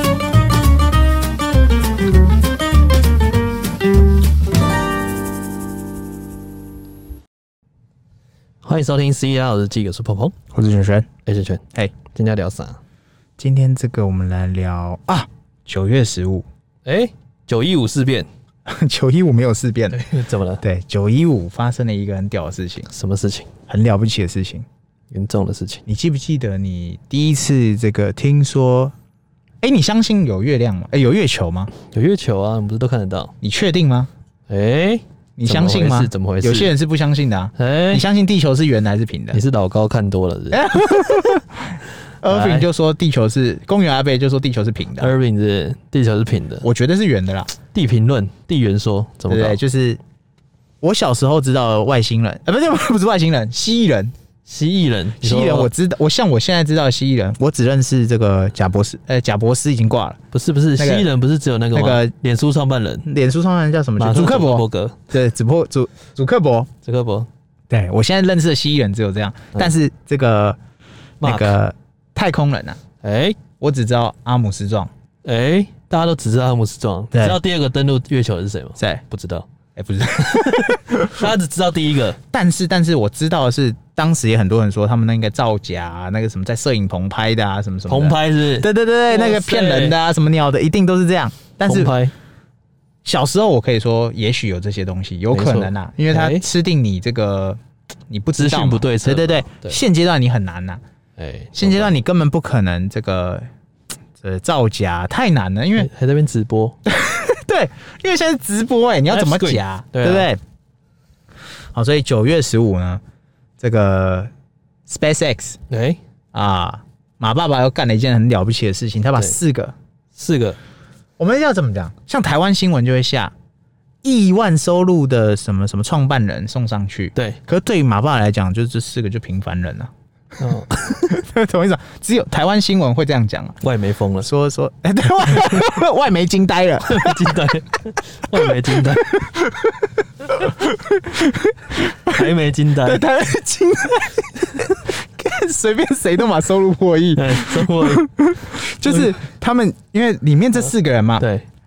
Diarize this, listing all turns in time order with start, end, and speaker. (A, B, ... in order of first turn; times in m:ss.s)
0:08.6-0:10.4 A
0:10.5-0:11.1 B
0:11.3-0:12.8 A
0:13.4-0:16.4 B
0:16.8-0:18.3 A
0:18.7-0:20.0 B
0:19.9-0:20.6 A
0:20.6-0:22.9 B
0:22.9-0:23.5 A
0:23.7-0:24.6 B
0:25.1-0:25.8 A
0:25.9-0:28.9 B
0:29.6-0:31.7 B
0:31.8-0:33.3 A
0:33.4-0:34.1 B
0:34.5-0:36.7 A
0:35.4-0:39.4 B
0:37.6-0:38.0 A
0:39.3-0:40.7 A
0:40.5-0:45.2 B
0:42.3-0:42.7 A
0:45.0-0:46.7 A
0:46.6-0:47.5 B
0:47.7-0:49.6 A
0:49.3-0:50.0 B
0:50.8-0:54.1 B
0:54.5-0:55.7 A
0:55.2-1:00.2 B
1:00.3-1:03.1 A
1:00.8-1:01.1 B
1:01.7-1:02.1 B
1:03.0-1:06.7 B
1:04.0-1:05.0 A
1:06.8-1:07.3 A
1:07.7-1:10.6 B
1:11.2-1:11.6 A
1:11.2-1:12.8 B
1:13.0-1:13.4 A
1:13.6-1:14.9 B
1:15.2-1:19.5 A
1:17.1-1:17.4 B
1:18.8-1:19.0 B
1:19.8-1:21.3 B
1:20.2-1:22.2 A
1:22.3-1:32.0 B
1:27.9-1:30.0 A
1:31.6-1:32.1 A
1:33.0-1:40.8 B
1:35.3-1:36.5 A
1:38.4-1:39.8 A
1:41.2-1:42.0 A
1:41.6-1:43.4 B
1:44.2-1:45.9 B
1:45.8-1:46.8 A
1:46.9-1:50.4 B
1:49.1-1:50.3 A
1:51.7-1:53.0 B
1:53.6-1:54.3 B
1:54.9-1:55.6 B
1:55.7-1:56.0 A
1:56.3-1:59.7 B
2:00.2-2:00.6 A
2:01.2-2:03.3 B
2:04.0-2:09.9 B
2:10.4-2:11.2 A
2:10.5-2:13.6 B
2:13.6-2:14.3 A
2:14.2-2:17.3 B
2:16.9-2:19.1 A
2:18.4-2:19.7 B
2:20.3-2:22.2 B
2:22.1-2:23.0 A
2:22.8-2:31.2 B
2:27.2-2:28.1 A
2:28.8-2:29.1 A
2:31.2-2:31.4 A